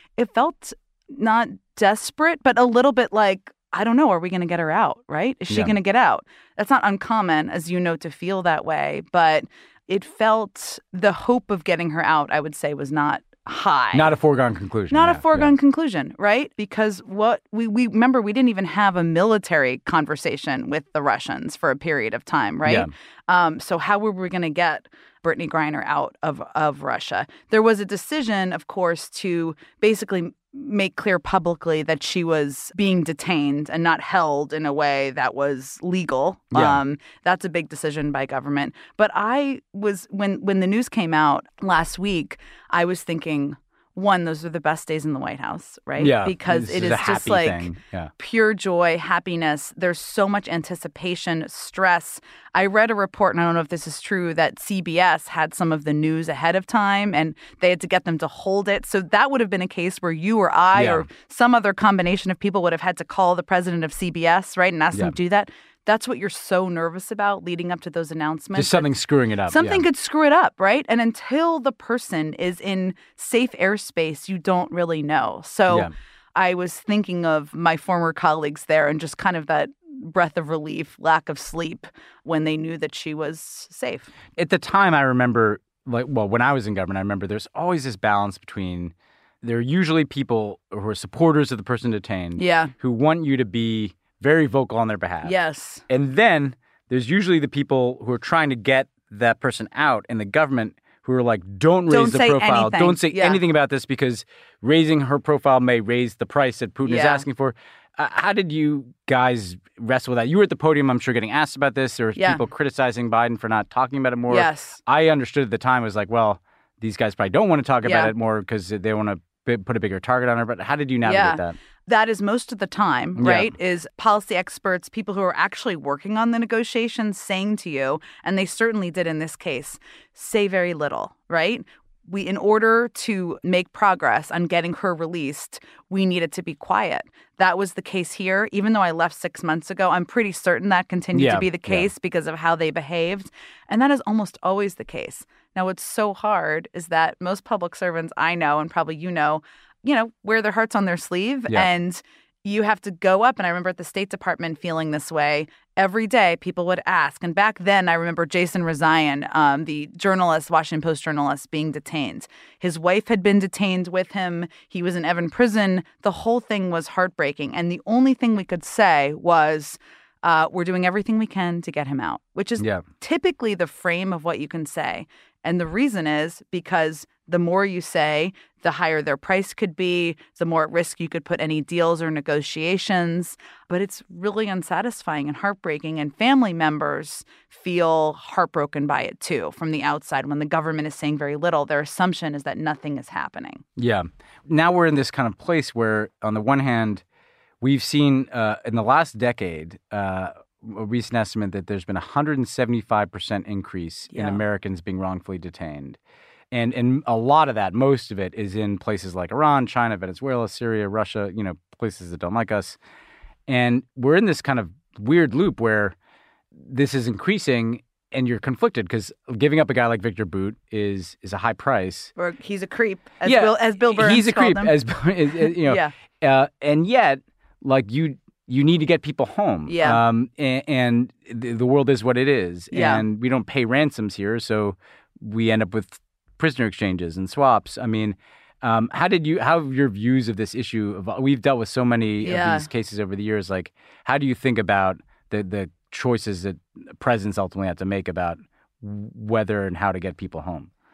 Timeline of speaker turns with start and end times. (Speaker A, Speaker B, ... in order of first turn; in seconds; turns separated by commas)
Speaker A: 0.2-14.1, Speaker B: 13.9-15.5, Speaker A: 14.9-68.9, Speaker B: 22.6-22.9, Speaker B: 36.5-36.8, Speaker B: 46.0-48.1, Speaker B: 60.7-61.1, Speaker B: 68.5-69.8, Speaker A: 69.5-84.1, Speaker B: 84.4-95.3, Speaker A: 92.4-92.7, Speaker A: 95.2-95.8, Speaker B: 95.9-121.6, Speaker A: 101.9-103.4, Speaker A: 106.8-107.2, Speaker A: 112.2-112.4, Speaker A: 114.3-114.8, Speaker A: 117.8-118.1, Speaker A: 121.0-193.6, Speaker B: 123.2-123.5, Speaker B: 141.1-141.9, Speaker B: 172.6-172.8, Speaker B: 193.8-197.0, Speaker B: 197.6-206.0, Speaker A: 204.1-204.4, Speaker B: 206.5-212.8, Speaker B: 213.5-215.9, Speaker B: 216.6-222.1, Speaker A: 222.2-224.7, Speaker B: 223.2-250.7, Speaker A: 225.4-225.9, Speaker A: 229.7-230.0, Speaker A: 232.7-233.0, Speaker A: 242.2-242.7